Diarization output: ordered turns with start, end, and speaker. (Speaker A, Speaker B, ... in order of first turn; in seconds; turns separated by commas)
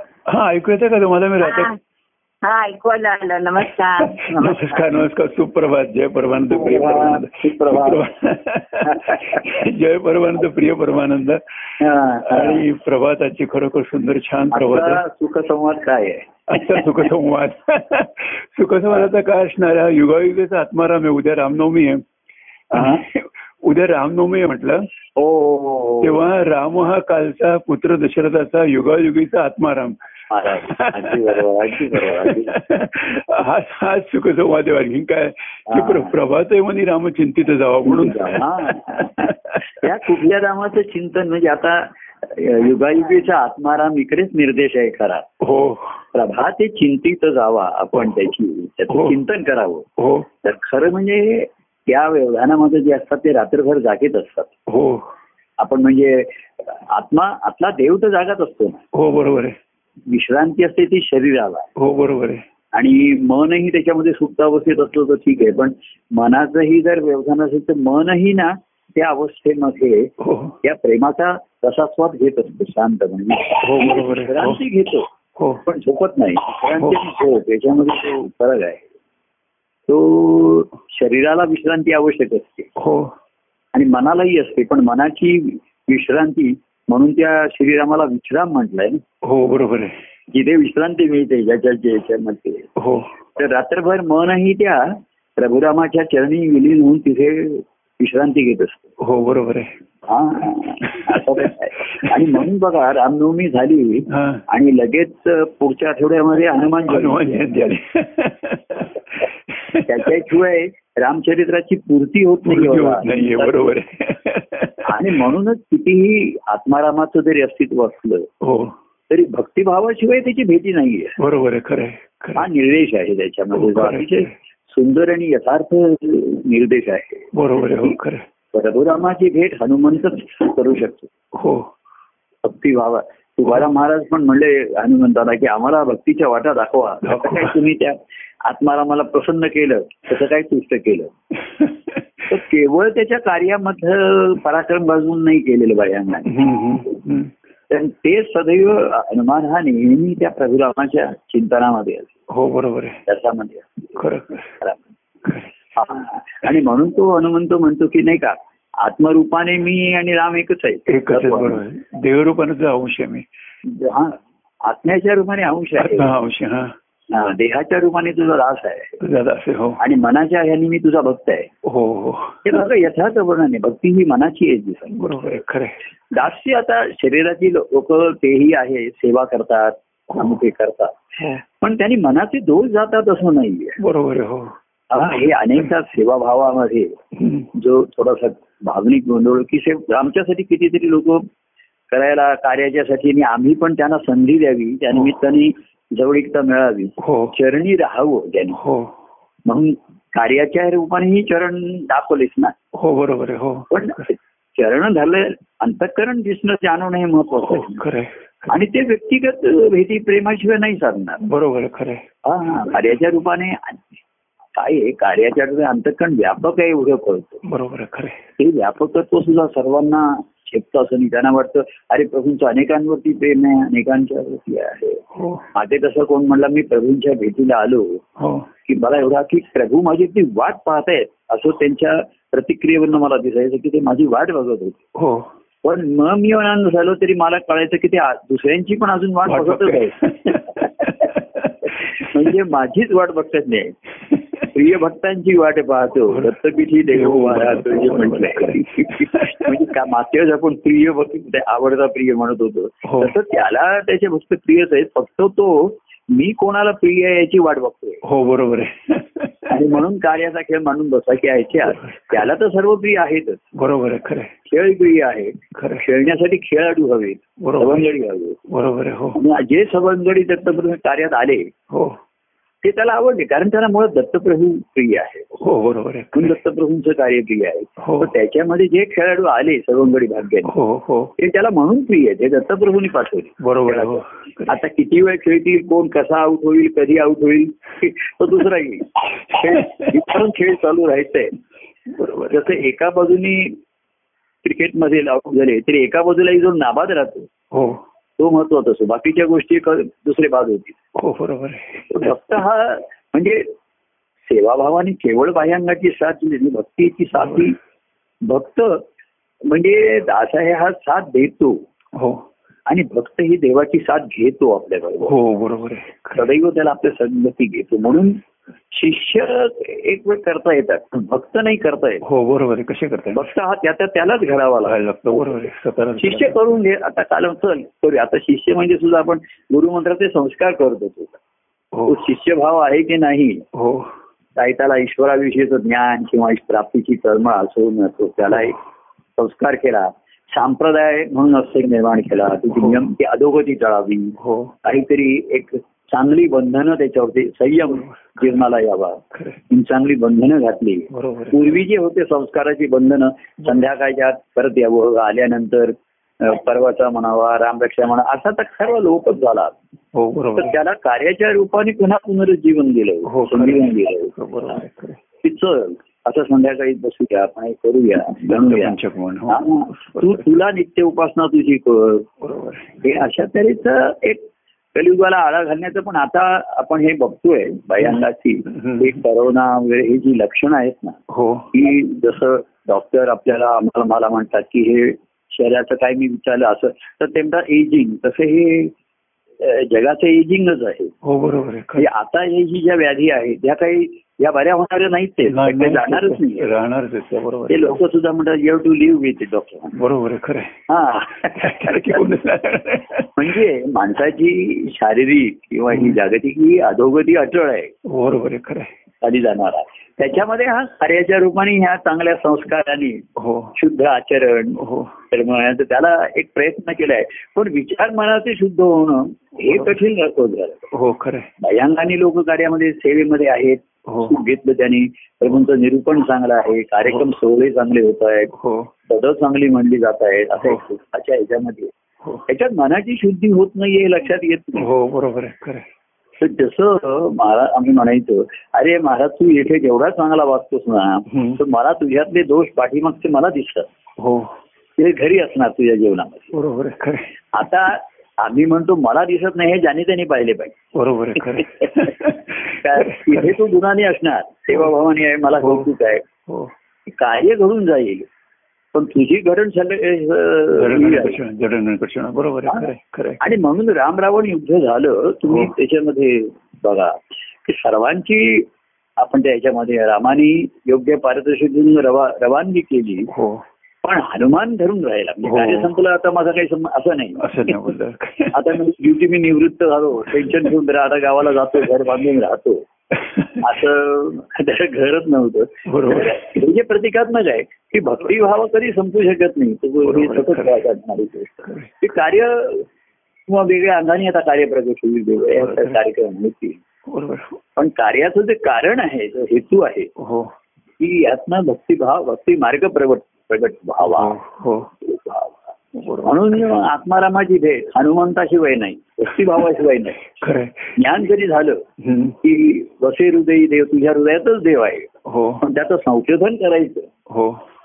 Speaker A: 0.3-1.7, Speaker B: 1.4-1.8, Speaker B: 2.4-4.2, Speaker A: 4.2-11.4, Speaker C: 4.3-4.8, Speaker C: 6.5-8.0, Speaker C: 8.8-9.6, Speaker C: 11.8-12.7, Speaker A: 12.2-15.0, Speaker C: 14.5-16.9, Speaker A: 16.5-22.0, Speaker A: 22.7-24.9, Speaker C: 22.8-23.0, Speaker C: 25.2-26.2, Speaker A: 26.0-30.0, Speaker C: 30.3-32.6, Speaker A: 30.5-39.9, Speaker C: 35.7-36.1, Speaker C: 37.9-45.3, Speaker A: 45.4-46.0, Speaker C: 46.1-49.9, Speaker A: 48.9-49.2, Speaker A: 50.0-50.3, Speaker C: 50.4-54.5, Speaker A: 54.7-55.1, Speaker C: 55.6-58.8, Speaker A: 58.9-59.6, Speaker C: 60.1-61.7, Speaker A: 61.8-62.4, Speaker C: 62.7-75.1, Speaker A: 70.2-70.6, Speaker A: 73.6-74.6, Speaker A: 75.4-75.6, Speaker C: 75.6-78.8, Speaker A: 76.7-77.0, Speaker C: 79.9-82.7, Speaker A: 82.8-83.1, Speaker C: 83.7-89.0, Speaker A: 89.2-90.0, Speaker C: 90.3-92.7, Speaker A: 92.8-93.1, Speaker C: 93.4-98.9, Speaker A: 99.0-99.7, Speaker C: 100.1-107.5, Speaker A: 100.9-102.3, Speaker A: 104.1-104.4, Speaker A: 106.9-110.1, Speaker C: 109.8-113.8, Speaker A: 112.4-115.1, Speaker C: 114.8-118.3, Speaker A: 118.4-118.8, Speaker C: 119.1-121.2, Speaker A: 121.2-122.5, Speaker C: 122.4-128.0, Speaker A: 123.5-124.3, Speaker A: 127.3-128.2, Speaker C: 128.5-131.1, Speaker A: 131.3-131.7, Speaker C: 132.4-141.1, Speaker A: 137.0-137.6, Speaker A: 141.6-142.0, Speaker C: 142.3-146.4, Speaker A: 146.2-147.3, Speaker C: 147.7-152.2, Speaker A: 152.3-153.0, Speaker C: 153.1-153.7, Speaker A: 154.0-154.5, Speaker A: 155.2-155.5, Speaker C: 155.8-161.6, Speaker A: 160.9-163.3, Speaker C: 163.7-166.2, Speaker A: 165.8-166.7, Speaker C: 167.1-169.0, Speaker A: 169.0-169.8, Speaker C: 169.8-171.5, Speaker A: 171.6-172.6, Speaker C: 172.4-175.0, Speaker A: 174.9-175.8, Speaker C: 176.1-181.0, Speaker C: 181.6-183.8, Speaker A: 183.8-184.6, Speaker C: 184.9-187.0, Speaker A: 187.2-187.5, Speaker C: 187.5-191.3, Speaker C: 191.9-198.6, Speaker A: 197.0-197.3, Speaker A: 198.6-198.9, Speaker C: 199.5-202.6, Speaker A: 202.7-204.1, Speaker C: 203.7-207.8, Speaker A: 207.4-208.5, Speaker C: 208.5-211.3, Speaker A: 211.3-212.1, Speaker C: 212.2-213.9, Speaker C: 214.6-217.4, Speaker A: 217.4-218.2, Speaker C: 218.4-225.0, Speaker A: 225.1-225.4, Speaker C: 225.5-228.0, Speaker A: 228.2-228.5, Speaker C: 228.7-234.8, Speaker A: 235.0-235.3, Speaker C: 235.6-240.9, Speaker A: 239.3-241.7, Speaker C: 241.7-243.8, Speaker C: 244.5-258.0, Speaker A: 246.9-249.6, Speaker A: 252.8-253.1, Speaker A: 258.0-259.8, Speaker C: 259.5-263.4, Speaker A: 261.6-262.3, Speaker A: 263.6-264.3, Speaker C: 264.5-268.4, Speaker A: 265.6-265.9, Speaker A: 267.4-267.9, Speaker A: 268.5-269.2, Speaker C: 269.1-271.5, Speaker A: 271.7-272.0, Speaker C: 272.6-275.4, Speaker A: 275.4-276.4, Speaker C: 276.1-280.5, Speaker A: 277.8-278.1, Speaker A: 280.5-281.1, Speaker C: 281.2-291.4, Speaker A: 283.4-284.6, Speaker A: 289.6-289.9, Speaker A: 291.9-292.6, Speaker C: 292.3-293.6, Speaker C: 294.4-297.3, Speaker A: 297.5-297.8, Speaker C: 298.2-300.8, Speaker A: 301.0-302.1, Speaker C: 301.9-303.5, Speaker C: 304.3-307.6, Speaker A: 307.2-307.5, Speaker C: 308.3-308.8, Speaker C: 309.5-311.6, Speaker A: 311.9-312.2, Speaker C: 312.7-315.1, Speaker A: 315.1-316.3, Speaker C: 316.2-322.0, Speaker A: 322.0-323.3, Speaker C: 323.1-325.3, Speaker A: 324.6-326.4, Speaker C: 326.0-331.2, Speaker A: 331.7-332.0, Speaker C: 331.9-333.5, Speaker A: 333.5-333.9, Speaker C: 334.4-338.6, Speaker C: 339.2-359.6, Speaker A: 342.5-342.8, Speaker A: 344.2-344.5, Speaker A: 347.7-348.4, Speaker A: 349.1-349.4, Speaker A: 350.9-351.6, Speaker A: 359.9-360.6, Speaker C: 360.4-364.1, Speaker A: 363.1-365.0, Speaker C: 365.2-372.1, Speaker A: 368.1-370.3, Speaker A: 372.2-372.7, Speaker C: 372.8-381.0, Speaker A: 377.8-378.9, Speaker A: 381.1-381.5, Speaker C: 381.5-388.7, Speaker C: 389.4-390.9, Speaker A: 391.0-391.9, Speaker C: 391.8-396.5, Speaker A: 395.3-397.8, Speaker C: 397.5-399.8, Speaker A: 399.8-400.5, Speaker C: 400.7-402.0, Speaker A: 401.4-403.4, Speaker C: 403.2-407.7, Speaker A: 405.7-406.0, Speaker A: 407.9-408.7, Speaker C: 409.0-413.0, Speaker A: 413.2-413.6, Speaker C: 413.6-420.7, Speaker A: 414.6-414.9, Speaker A: 419.4-419.8, Speaker A: 420.7-421.3, Speaker C: 421.4-428.3, Speaker A: 423.9-424.1, Speaker A: 428.3-428.7, Speaker C: 428.9-431.7, Speaker C: 432.3-434.7, Speaker A: 434.6-435.7, Speaker C: 436.2-443.7, Speaker A: 441.1-441.4, Speaker A: 444.0-444.3, Speaker C: 444.8-446.3, Speaker A: 446.3-447.1, Speaker C: 447.3-450.6, Speaker A: 450.7-453.4, Speaker C: 451.4-451.9, Speaker C: 452.5-456.1, Speaker A: 455.4-455.7, Speaker C: 456.9-458.1, Speaker C: 458.7-461.2, Speaker A: 460.6-463.2, Speaker C: 463.2-473.1, Speaker A: 473.1-473.4, Speaker C: 473.8-477.6, Speaker A: 475.2-475.7, Speaker A: 477.2-478.4, Speaker C: 478.3-482.6, Speaker A: 480.2-480.5, Speaker A: 482.9-483.4, Speaker C: 483.4-492.7, Speaker A: 485.7-486.2, Speaker A: 489.8-490.6, Speaker A: 491.5-491.8, Speaker C: 493.3-496.6, Speaker A: 495.4-495.8, Speaker A: 496.9-497.4, Speaker C: 497.6-499.9, Speaker A: 500.0-500.3, Speaker C: 500.8-504.2, Speaker A: 503.8-504.7, Speaker C: 504.8-510.2, Speaker A: 505.7-506.6, Speaker A: 510.1-510.7, Speaker C: 510.8-511.6, Speaker A: 511.8-512.2, Speaker C: 512.2-514.9, Speaker A: 515.1-515.4, Speaker C: 515.4-516.9, Speaker A: 517.1-517.4